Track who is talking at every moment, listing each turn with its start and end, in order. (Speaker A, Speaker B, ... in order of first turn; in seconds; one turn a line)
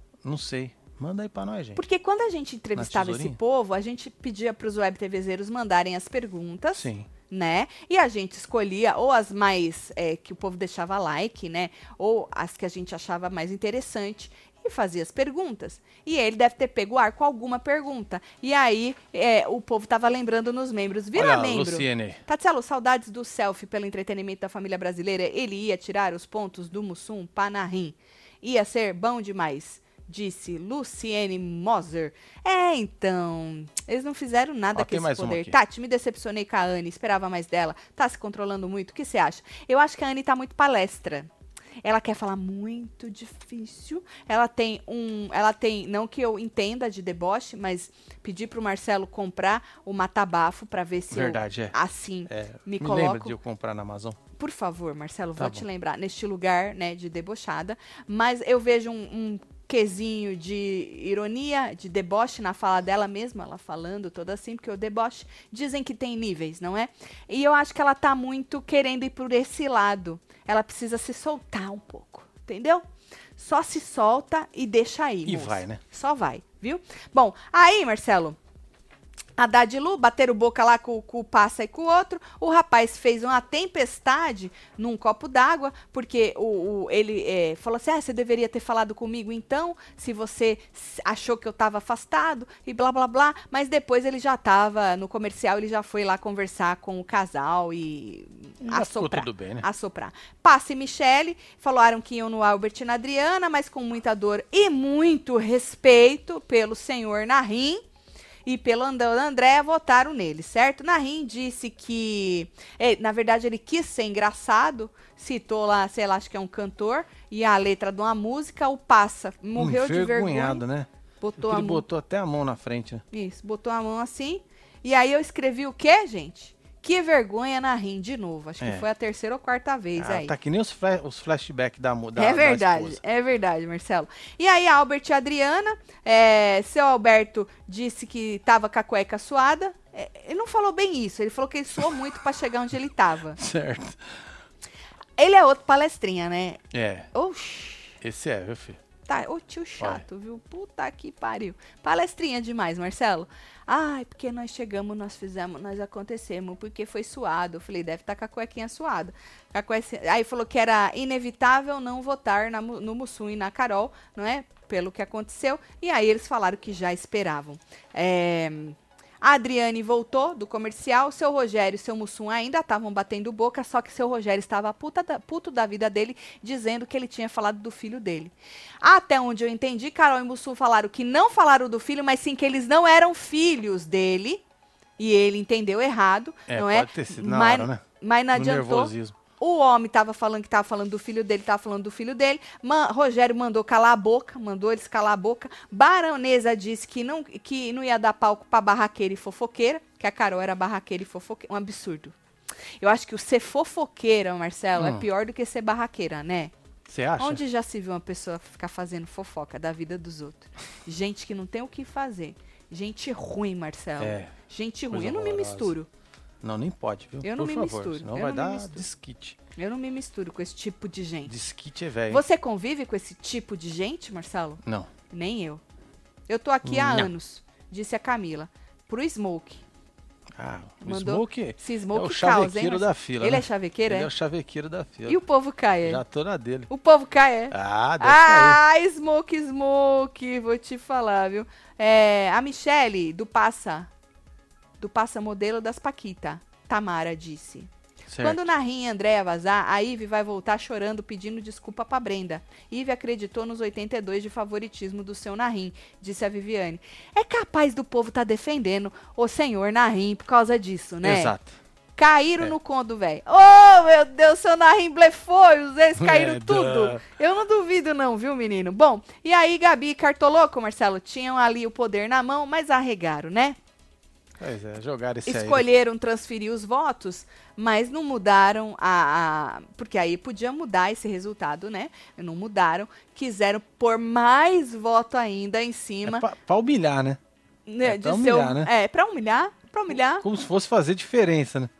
Speaker A: 0.2-1.8
Speaker B: 1.8-41.3
Speaker A: 2.8-3.4
Speaker A: 6.8-7.1
Speaker A: 21.1-22.2
Speaker A: 34.8-35.5
Speaker B: 41.8-53.4
Speaker A: 51.1-51.8
Speaker A: 52.3-54.2
Speaker B: 54.4-72.8
Speaker A: 55.4-55.6
Speaker B: 73.4-78.4
Speaker A: 75.2-75.8
Speaker B: 79.4-107.8
Speaker A: 98.6-99.7
Speaker B: 108.5-120.6
Speaker A: 119.6-120.9
Speaker B: 121.2-121.8
Speaker A: 121.4-123.0
Speaker B: 123.1-130.3
Speaker A: 128.6-128.8
Speaker A: 130.0-133.0
Speaker B: 132.2-143.4
Speaker A: 143.4-144.3
Speaker B: 145.2-146.6
Speaker A: 146.7-147.1
Speaker B: 147.1-148.0
Speaker A: 148.0-148.8
Speaker B: 149.1-184.4
Speaker B: 185.0-202.2
Speaker A: 186.5-187.8
Speaker A: 188.3-189.2
Speaker B: 202.8-206.5
Speaker A: 204.8-205.1
Speaker A: 206.9-207.4
Speaker B: 207.2-215.9
Speaker A: 214.0-214.3
Speaker A: 214.9-215.7
Speaker A: 216.4-219.4
Speaker B: 217.2-218.9
Speaker B: 219.6-221.3
Speaker A: 221.3-222.2
Speaker B: 222.1-225.6
Speaker A: 224.6-224.9
Speaker B: 226.3-229.6
Speaker A: 226.7-227.1
Speaker A: 230.4-235.2
Speaker B: 230.8-234.1
Speaker B: 235.1-236.0
Speaker A: 235.8-236.7
Speaker B: 236.7-243.9
Speaker A: 237.5-238.6
Speaker B: 244.8-261.4
Speaker A: 248.1-248.5
Speaker A: 261.0-261.6
Speaker B: 262.0-273.6
Speaker A: 266.0-267.0
Speaker A: 274.4-275.6
Speaker B: 275.3-286.3
Speaker A: 286.1-287.2
Speaker B: 287.7-290.2
Speaker A: 287.8-288.7
Speaker A: 290.2-291.7